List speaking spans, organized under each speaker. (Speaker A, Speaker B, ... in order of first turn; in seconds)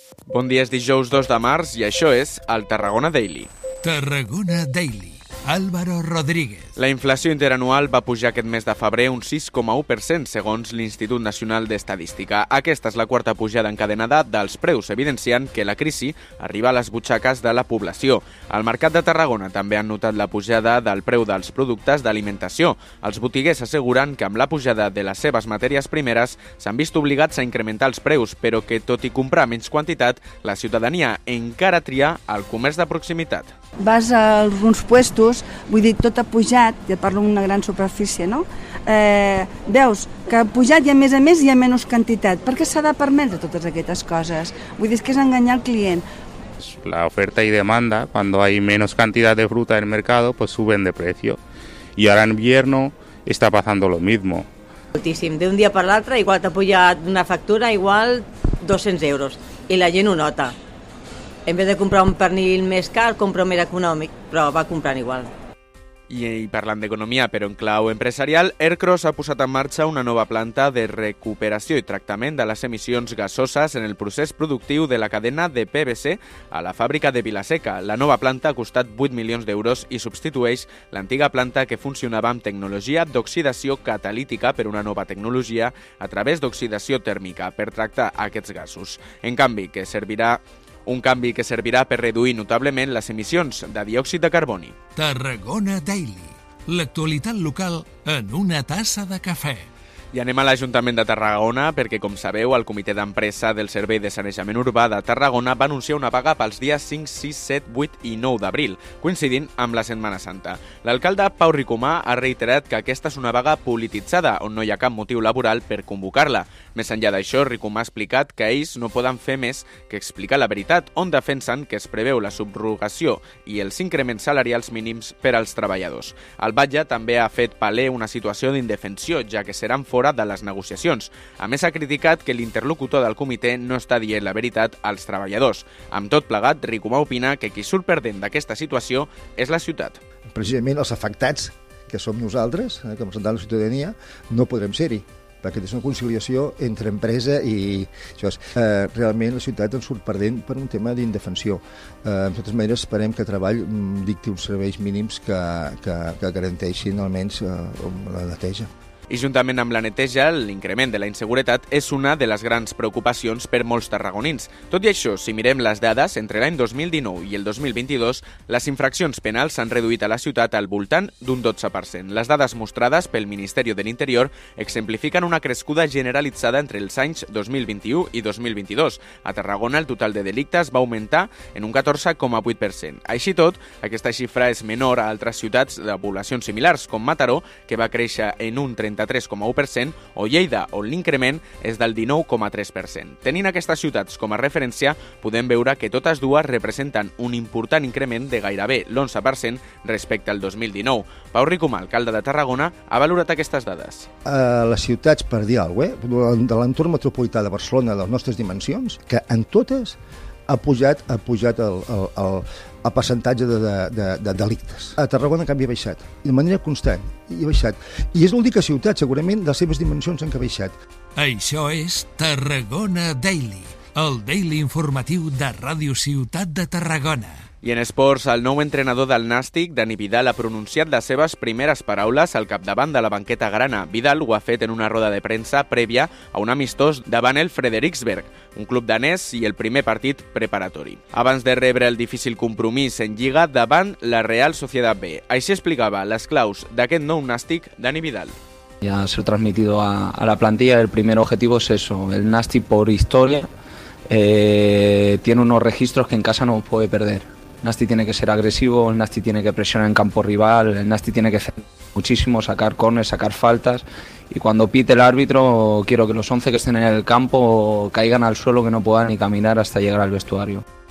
Speaker A: 0.3-3.5, 6.8-33.5, 66.1-94.7, 100.1-140.0, 159.1-204.1, 227.6-248.3
Speaker B: 3.8-6.7, 95.0-99.7, 221.2-227.4
Speaker C: 33.8-46.0
Speaker D: 46.6-51.4, 52.0-54.5
Speaker E: 55.0-60.5, 61.5-65.3
Speaker F: 140.3-158.7, 204.2-210.0, 210.5-220.7
Speaker G: 248.8-253.5, 254.1-270.6